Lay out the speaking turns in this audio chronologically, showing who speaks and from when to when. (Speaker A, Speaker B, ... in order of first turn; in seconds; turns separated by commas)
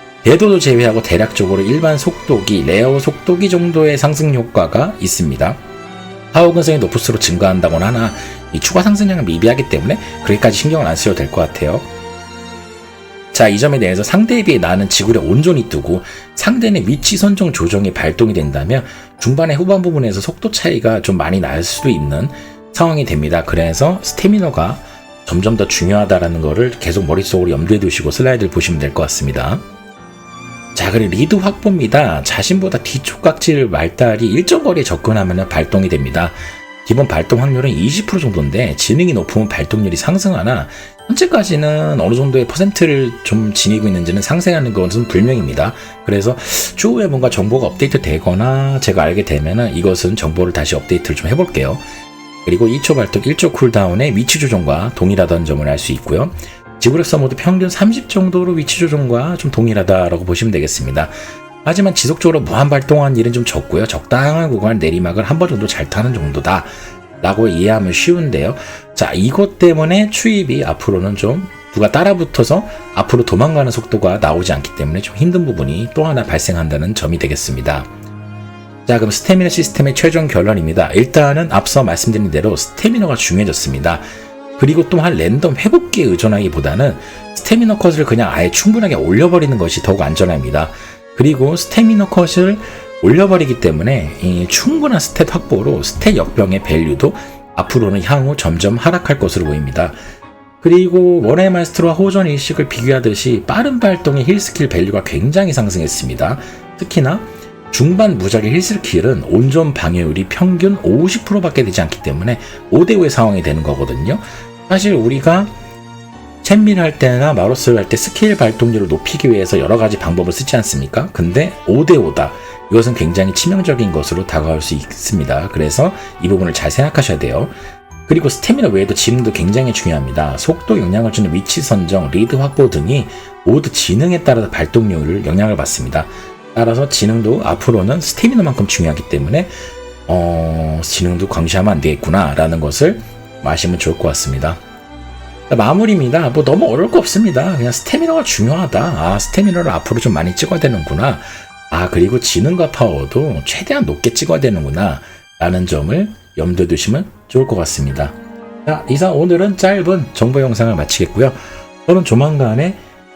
Speaker A: 0.2-5.6, Speaker A: 6.3-11.9, Speaker A: 13.3-29.6, Speaker A: 30.8-51.8, Speaker A: 52.5-61.1, Speaker A: 61.6-77.9, Speaker A: 78.9-84.1, Speaker A: 84.6-100.0, Speaker A: 100.6-115.5, Speaker A: 116.4-127.5, Speaker A: 128.1-139.5, Speaker A: 140.1-144.6, Speaker A: 145.5-162.8